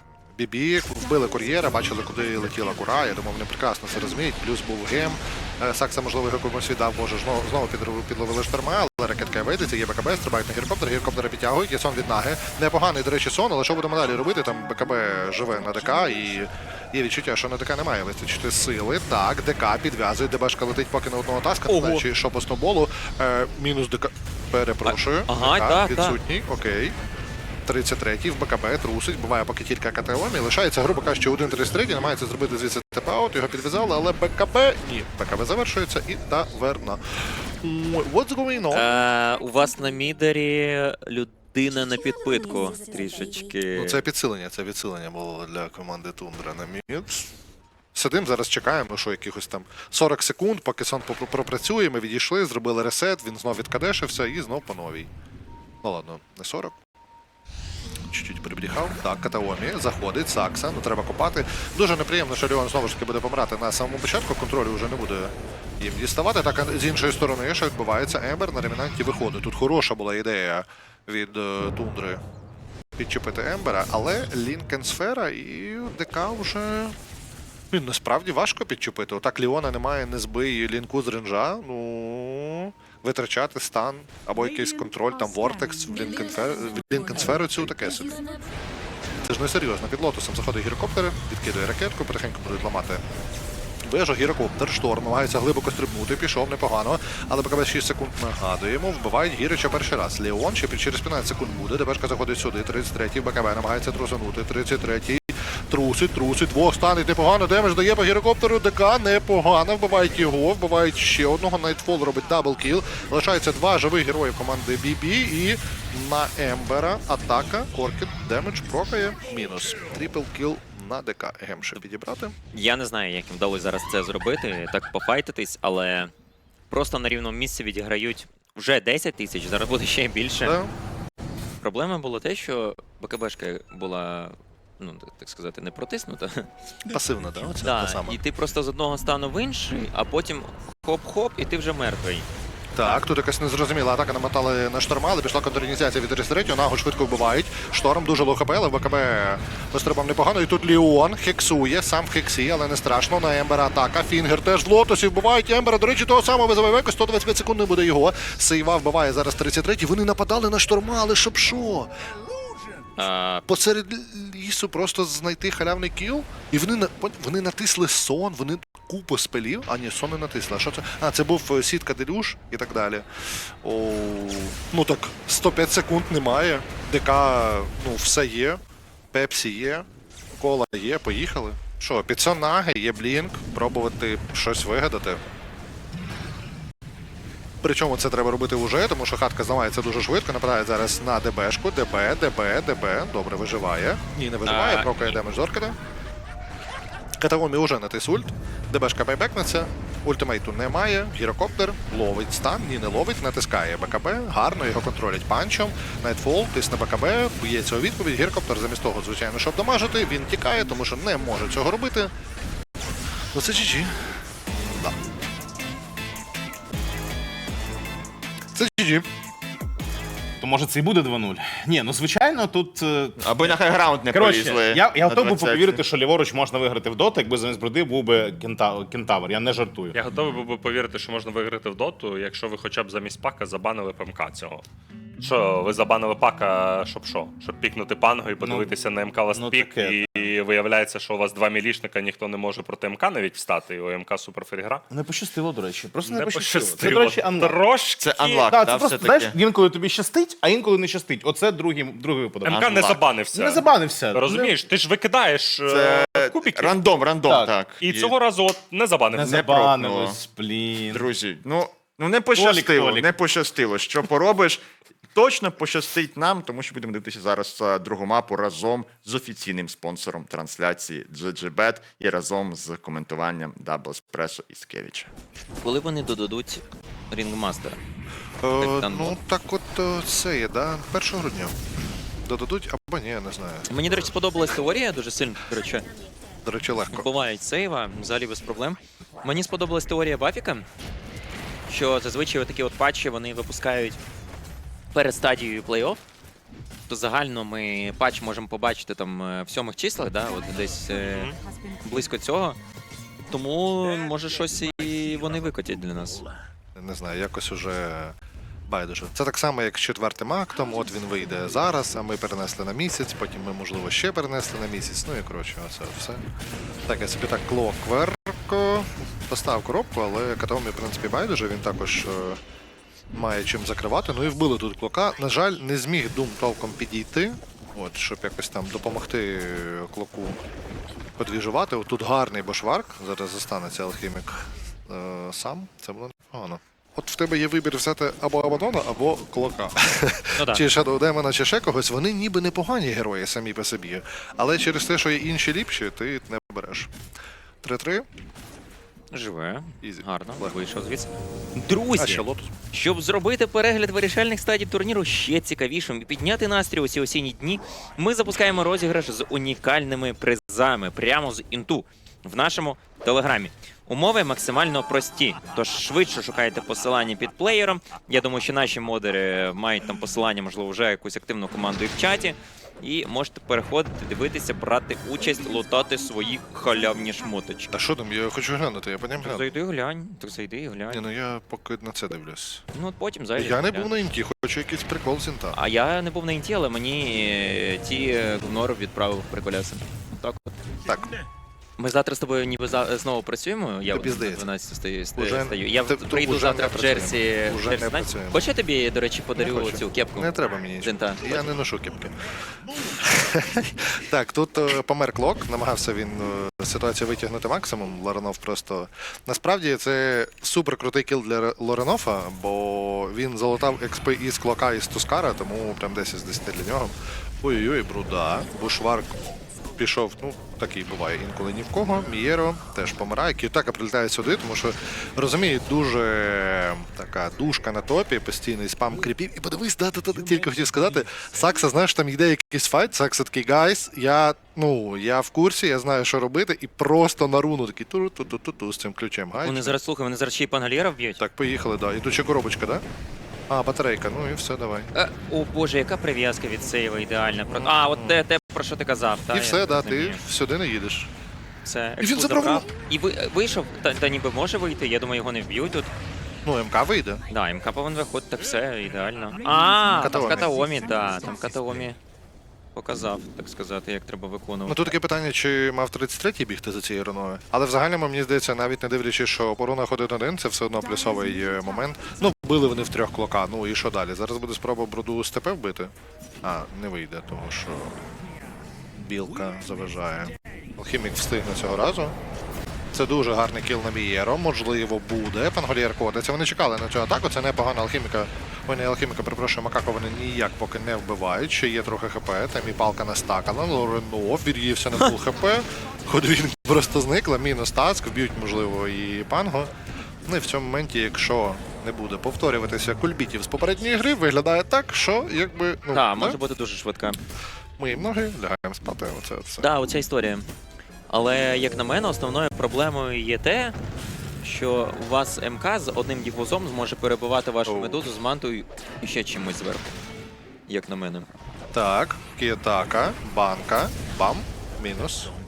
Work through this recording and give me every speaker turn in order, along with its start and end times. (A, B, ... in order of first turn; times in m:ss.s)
0:00.3-0:27.0 A
0:21.7-0:22.0 B
0:24.9-0:26.2 B
0:27.6-0:38.9 A
0:38.7-0:44.0 B
0:43.7-0:47.3 A
0:47.9-0:55.1 A
0:55.8-0:56.8 A
0:58.1-1:12.2 A
1:13.0-1:17.0 A
1:17.7-1:28.2 A
1:29.2-1:33.0 A
1:33.8-2:02.3 A
2:02.5-2:06.1 B
2:06.7-2:10.6 B
2:10.4-2:10.7 A
2:11.6-2:16.5 B
2:16.9-2:18.2 A
2:17.6-2:22.3 B
2:22.8-2:41.9 A
2:43.0-2:43.4 B
2:43.4-2:58.6 A
2:59.1-2:59.9 A
3:00.4-3:05.2 A
3:07.6-3:15.8 A
3:14.4-3:15.2 B
3:17.2-3:32.1 A
3:33.3-3:34.9 A
3:38.5-3:39.1 A
3:40.4-3:43.5 C
3:43.2-3:45.8 D
3:44.1-3:50.0 C
3:49.9-3:54.6 E
3:55.2-4:04.8 E
3:58.4-3:58.7 C
3:59.3-4:00.3 C
4:04.9-4:07.6 C
4:06.0-4:08.5 E
4:08.0-4:09.3 D
4:08.4-4:14.6 C
4:12.4-4:16.8 E
4:15.6-4:18.2 D
4:17.2-4:17.5 C
4:17.8-4:19.5 E
4:19.1-4:21.0 C
4:19.2-4:20.2 D
4:20.9-4:24.6 D
4:22.3-4:23.1 C
4:25.1-4:35.1 D
4:35.6-4:37.8 B
4:38.4-4:41.6 A
4:38.6-4:39.2 B
4:42.2-4:43.7 A
4:43.7-4:45.9 B
4:46.4-4:47.1 A
4:46.9-4:50.6 B
4:51.7-4:54.0 B
4:54.9-4:56.0 B
4:56.9-5:01.3 B
5:01.8-5:02.6 B
5:03.3-5:06.2 B
5:06.8-5:08.2 A
5:08.7-5:16.2 A
5:16.9-5:22.4 A
5:23.1-5:30.4 A
5:31.2-5:46.9 A
5:40.4-5:40.6 B
5:47.6-5:48.0 A
5:49.1-6:17.7 B
5:49.8-5:50.5 A
5:52.0-5:52.5 A
6:17.7-6:19.6 A
6:19.2-6:21.0 B
6:20.9-6:22.6 A
6:22.7-6:23.9 B
6:23.4-6:25.6 A
6:25.5-6:30.6 B
6:30.9-6:31.1 A
6:31.8-6:41.4 B
6:33.9-6:34.5 A
6:35.2-6:38.4 A
6:39.4-6:42.1 A
6:42.8-6:59.2 A
6:59.8-7:19.8 A
7:19.4-7:21.2 B
7:21.2-7:22.8 A
7:23.5-7:24.9 A
7:24.9-7:30.2 B
7:27.5-7:28.2 A
7:29.3-7:31.1 A
7:31.6-7:35.9 B
7:32.0-7:32.7 A
7:36.4-7:37.2 A
7:37.3-7:42.0 B
7:39.9-7:40.8 A
7:42.8-7:44.8 B
7:44.7-7:55.9 A
7:56.4-7:58.0 A
7:58.9-8:02.1 A
8:02.9-8:19.7 A
8:20.2-8:26.4 A
8:25.9-8:27.2 B
8:27.8-8:29.7 A
8:29.6-8:30.4 B
8:31.1-8:33.8 B
8:34.4-8:40.0 B
8:37.6-8:38.0 A
8:40.7-8:41.2 B
8:41.7-8:45.3 A